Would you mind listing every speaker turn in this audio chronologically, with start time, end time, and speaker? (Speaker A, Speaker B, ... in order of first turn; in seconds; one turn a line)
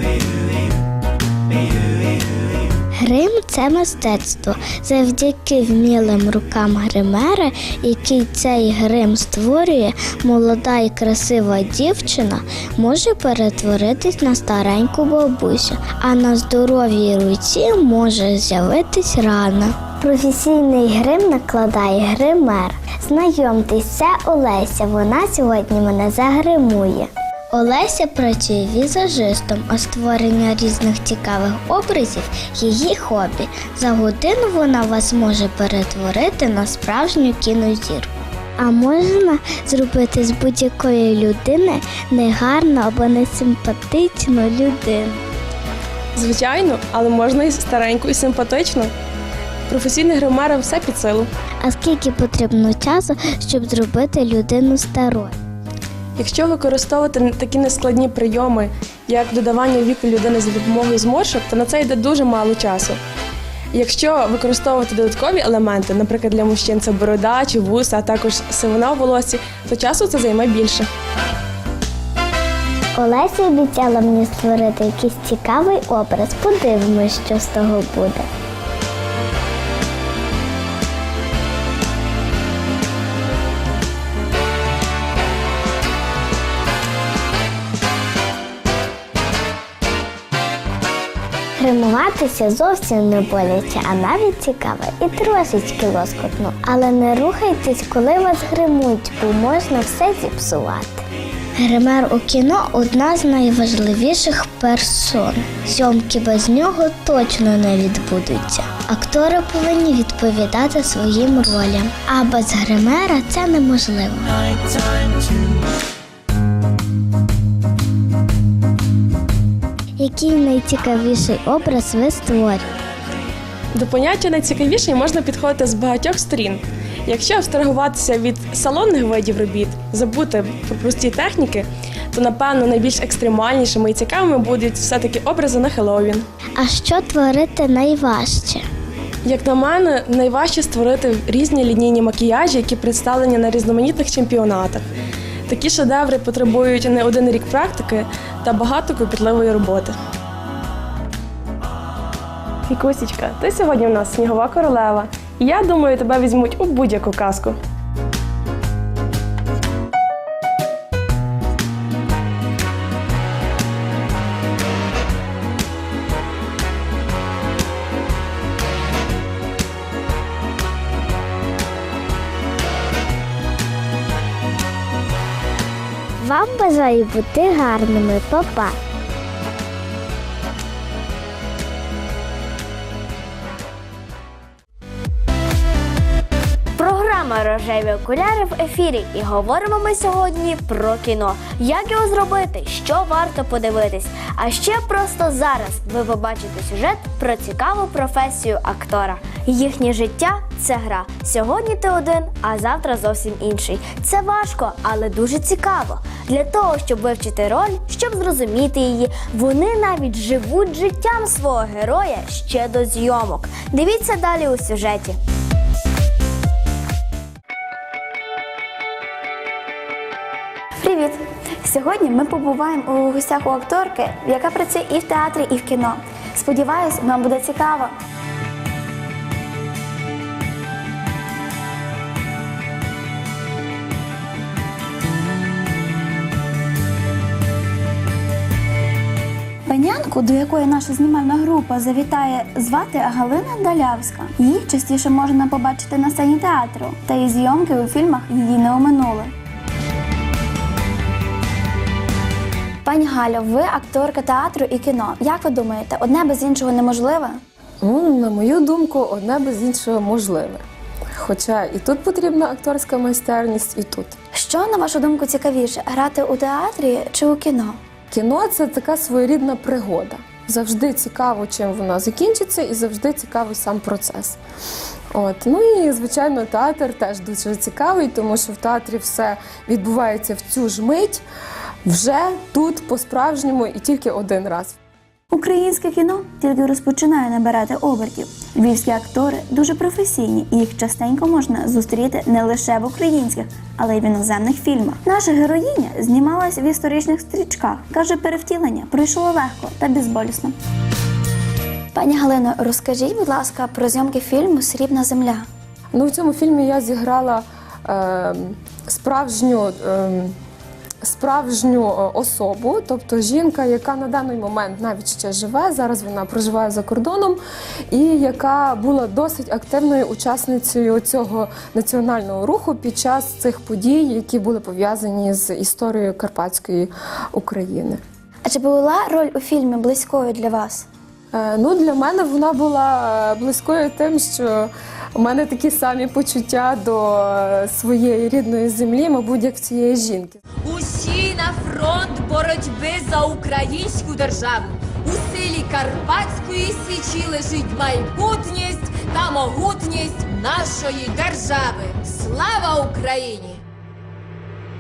Speaker A: 3.0-45.2
Speaker B: 46.1-48.9
Speaker B: 49.7-51.3
Speaker A: 51.6-55.4
Speaker B: 56.2-63.0
Speaker B: 63.7-70.9
Speaker A: 73.0-78.3
Speaker A: 91.6-101.0
Speaker A: 101.6-114.4
Speaker A: 120.0-122.7
Speaker B: 123.8-136.2
Speaker A: 136.6-138.7
Speaker B: 139.2-144.8
Speaker B: 145.5-150.0
Speaker B: 152.7-157.6
Speaker A: 176.2-178.8
Speaker C: 186.8-215.2
Speaker D: 220.8-227.9
Speaker D: 239.7-249.3
Speaker D: 252.8-257.4
Speaker E: 257.8-260.6
Speaker E: 261.2-264.2
Speaker D: 264.4-267.8
Speaker E: 268.1-274.4
Speaker E: 275.1-281.2
Speaker E: 281.9-284.8
Speaker D: 285.3-300.6
Speaker D: 301.9-305.5
Speaker E: 305.9-310.4
Speaker E: 311.0-317.4
Speaker E: 317.9-328.0
Speaker D: 328.4-330.9
Speaker E: 331.3-340.4
Speaker F: 340.6-353.6